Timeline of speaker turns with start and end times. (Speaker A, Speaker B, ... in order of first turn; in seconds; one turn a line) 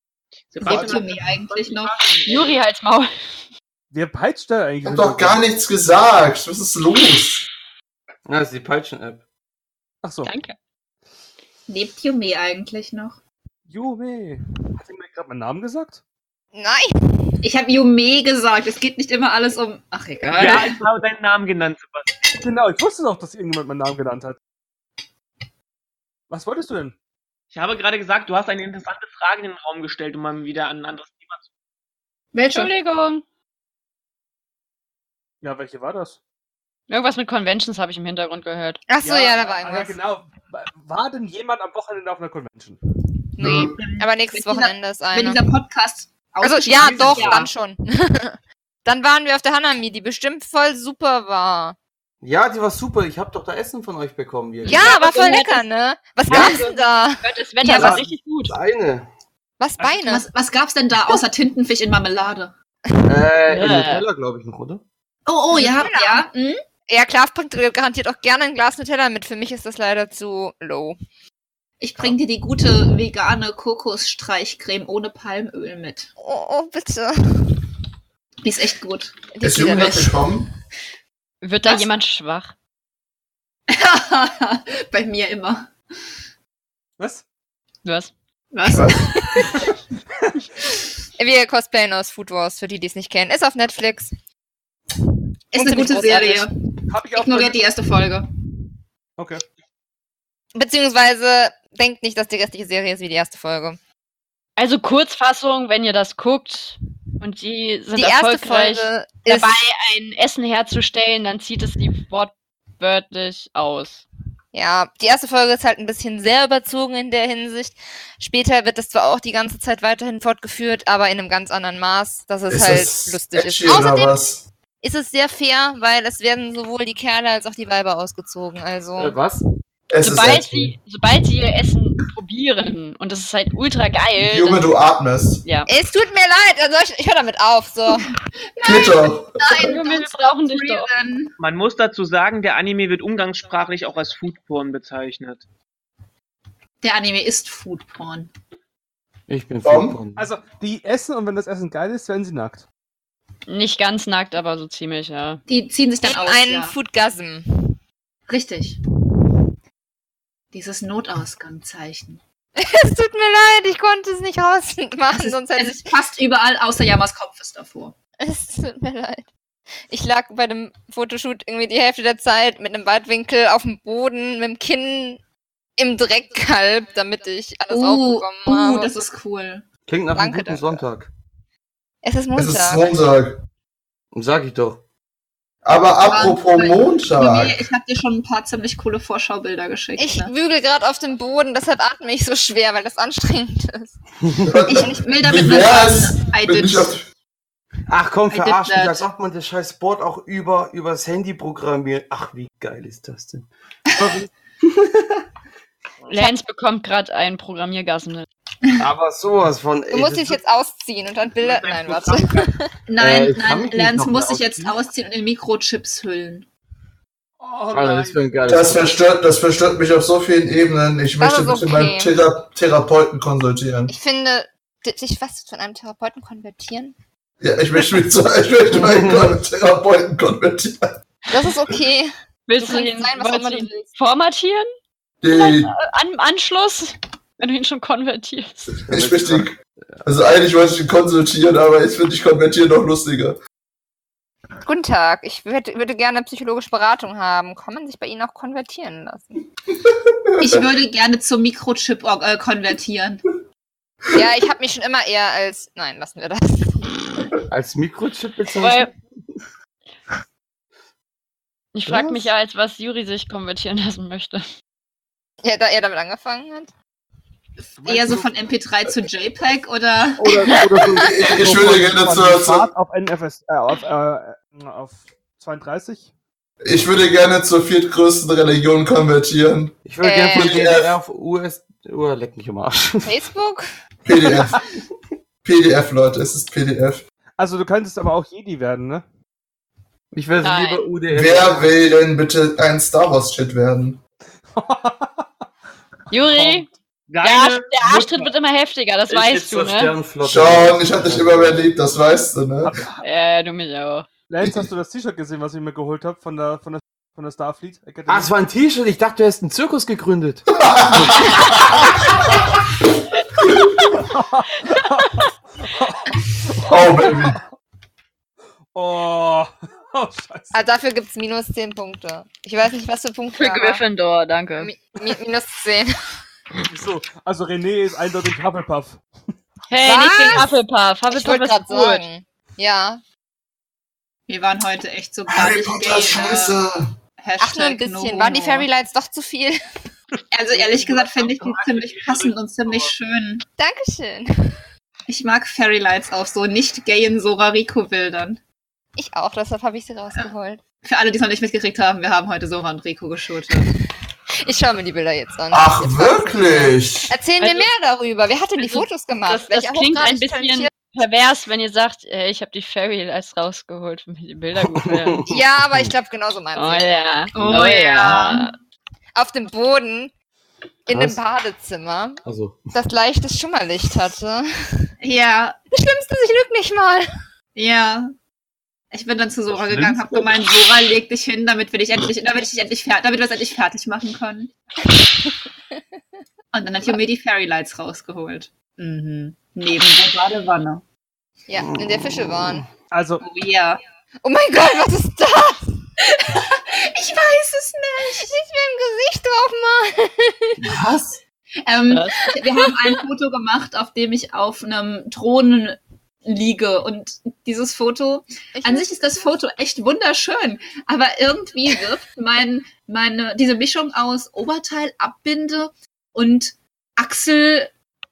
Speaker A: 0.5-2.5
Speaker B: 0.6-2.1
Speaker C: 2.2-3.1
Speaker D: 3.9-5.4
Speaker E: 4.8-7.5
Speaker F: 8.2-9.2
Speaker D: 10.0-10.3
Speaker C: 10.2-10.5
Speaker B: 11.7-13.2
Speaker D: 13.7-16.0
Speaker G: 16.5-17.2
Speaker B: 17.4-20.8
Speaker A: 20.3-22.1
Speaker D: 22.3-24.4
Speaker D: 26.3-26.9
Speaker A: 27.5-31.5
Speaker B: 32.3-32.7
Speaker C: 32.5-33.2
Speaker D: 35.4-36.2
Speaker C: 36.9-38.8
Speaker G: 38.9-40.0
Speaker D: 39.0-42.8
Speaker G: 43.4-45.4
Speaker E: 43.4-43.7
Speaker B: 43.4-47.5
Speaker G: 46.4-51.8
Speaker A: 47.0-47.4
Speaker F: 52.2-54.9
Speaker C: 54.6-55.6
Speaker G: 54.6-57.8
Speaker B: 54.7-55.4
Speaker C: 56.3-58.5
Speaker B: 56.3-56.7
Speaker B: 57.6-58.0
Speaker F: 57.8-59.0
Speaker G: 59.6-60.3
Speaker B: 59.8-62.5
Speaker F: 63.0-64.8
Speaker C: 63.5-64.0
Speaker B: 65.2-66.6
Speaker G: 65.5-66.2
Speaker G: 66.9-71.0
Speaker B: 71.8-76.1
Speaker G: 76.2-77.5
Speaker B: 78.4-79.1
Speaker G: 79.3-80.3
Speaker E: 79.4-80.5
Speaker C: 81.4-82.5
Speaker B: 83.7-85.7
Speaker D: 87.0-87.2
Speaker C: 87.8-88.1
Speaker B: 88.5-89.5
Speaker E: 88.7-88.9
Speaker G: 91.2-94.1
Speaker B: 95.5-96.5
Speaker G: 95.5-96.5
Speaker D: 96.9-97.6
Speaker B: 97.1-98.3
Speaker D: 99.2-99.4
Speaker G: 100.5-103.8
Speaker C: 104.6-114.0
Speaker G: 107.9-109.6
Speaker G: 114.5-124.2
Speaker E: 122.5-124.4
Speaker G: 124.8-129.2
Speaker F: 129.0-129.4
Speaker E: 129.9-130.7
Speaker C: 130.0-134.6
Speaker E: 134.3-135.4
Speaker G: 135.7-138.1
Speaker B: 138.6-141.3
Speaker E: 138.6-139.3
Speaker C: 139.7-140.9
Speaker A: 141.4-145.4
Speaker B: 146.8-148.3
Speaker F: 149.3-150.2
Speaker E: 149.6-150.0
Speaker D: 150.2-152.6
Speaker C: 153.5-155.4
Speaker B: 155.5-156.8
Speaker G: 156.0-157.8
Speaker B: 158.3-158.8
Speaker B: 160.5-162.2
Speaker G: 162.6-165.8
Speaker B: 165.1-167.9
Speaker G: 168.2-169.2
Speaker G: 169.9-175.2
Speaker G: 175.8-178.9
Speaker B: 177.7-179.7
Speaker F: 179.9-181.1
Speaker G: 180.1-180.8
Speaker G: 182.0-183.0
Speaker E: 182.3-183.4
Speaker F: 184.1-184.8
Speaker E: 185.6-187.6
Speaker B: 186.1-190.3
Speaker G: 190.0-194.0
Speaker E: 194.4-197.1
Speaker B: 194.7-197.0
Speaker F: 197.9-204.2
Speaker B: 198.3-199.1
Speaker C: 206.1-208.3
Speaker F: 208.8-210.4
Speaker G: 209.9-212.6
Speaker A: 211.4-212.6
Speaker B: 212.9-216.5
Speaker F: 213.0-214.7
Speaker D: 217.4-218.2
Speaker F: 217.7-218.9
Speaker E: 218.5-223.9
Speaker G: 221.2-222.1
Speaker G: 223.9-226.9
Speaker E: 227.4-230.9
Speaker F: 228.8-229.3
Speaker G: 231.3-233.9
Speaker C: 232.5-234.7
Speaker E: 235.2-235.7
Speaker C: 235.3-238.7
Speaker E: 238.9-243.4
Speaker F: 238.9-240.0
Speaker G: 244.6-249.4
Speaker E: 249.9-250.5
Speaker B: 250.4-253.2
Speaker G: 254.1-256.9
Speaker F: 257.5-258.9
Speaker C: 258.6-258.9
Speaker C: 261.7-264.4
Speaker F: 261.9-262.3
Speaker G: 265.4-266.7
Speaker D: 267.8-268.3
Speaker B: 267.8-270.6
Speaker F: 270.2-271.9
Speaker D: 270.5-276.1
Speaker E: 270.9-272.7
Speaker E: 276.6-279.8
Speaker F: 279.8-283.2
Speaker G: 280.0-280.8
Speaker E: 280.3-280.9
Speaker G: 283.0-283.6
Speaker E: 284.0-284.6
Speaker D: 284.3-284.6
Speaker E: 285.4-287.0
Speaker D: 287.4-289.0
Speaker F: 290.1-291.8
Speaker C: 290.4-290.8
Speaker E: 291.1-294.0
Speaker D: 294.5-295.3
Speaker C: 296.1-296.7
Speaker D: 296.1-296.7
Speaker A: 297.1-297.7
Speaker C: 297.2-299.9
Speaker F: 299.1-301.6
Speaker E: 300.2-302.8
Speaker D: 302.6-303.0
Speaker C: 303.0-304.1
Speaker D: 304.3-308.3
Speaker F: 308.1-311.4
Speaker E: 310.5-311.9
Speaker D: 313.9-317.4
Speaker E: 316.6-317.4
Speaker D: 318.7-320.6
Speaker G: 320.5-323.8
Speaker C: 323.4-324.7
Speaker G: 324.6-325.9
Speaker D: 326.6-329.0
Speaker C: 329.7-332.1
Speaker G: 329.8-330.5
Speaker G: 331.1-333.0
Speaker B: 334.3-336.6
Speaker E: 335.3-336.9
Speaker B: 337.2-338.7
Speaker G: 337.4-339.6
Speaker B: 340.3-343.4
Speaker D: 340.6-342.2
Speaker G: 343.6-344.6
Speaker B: 345.1-348.4
Speaker G: 348.9-350.6
Speaker B: 350.8-353.7
Speaker G: 354.4-360.7
Speaker E: 355.5-357.1
Speaker C: 357.4-357.7
Speaker C: 358.6-365.2
Speaker F: 364.7-365.9
Speaker G: 365.3-366.9
Speaker C: 366.5-368.5
Speaker B: 367.3-368.5
Speaker G: 369.1-370.1
Speaker G: 370.9-372.2
Speaker F: 370.9-371.2
Speaker F: 372.2-372.6
Speaker G: 372.7-374.9
Speaker B: 375.0-375.6
Speaker G: 375.7-377.1
Speaker B: 377.5-378.1
Speaker B: 378.9-384.5
Speaker F: 379.5-380.7
Speaker B: 386.5-390.8
Speaker G: 391.5-392.6
Speaker F: 391.6-392.7
Speaker D: 392.9-393.2
Speaker B: 393.2-393.8
Speaker G: 394.2-395.8
Speaker B: 396.1-398.3
Speaker G: 398.1-400.6
Speaker F: 400.6-401.2
Speaker B: 401.6-417.7
Speaker C: 401.9-402.1
Speaker G: 408.5-409.2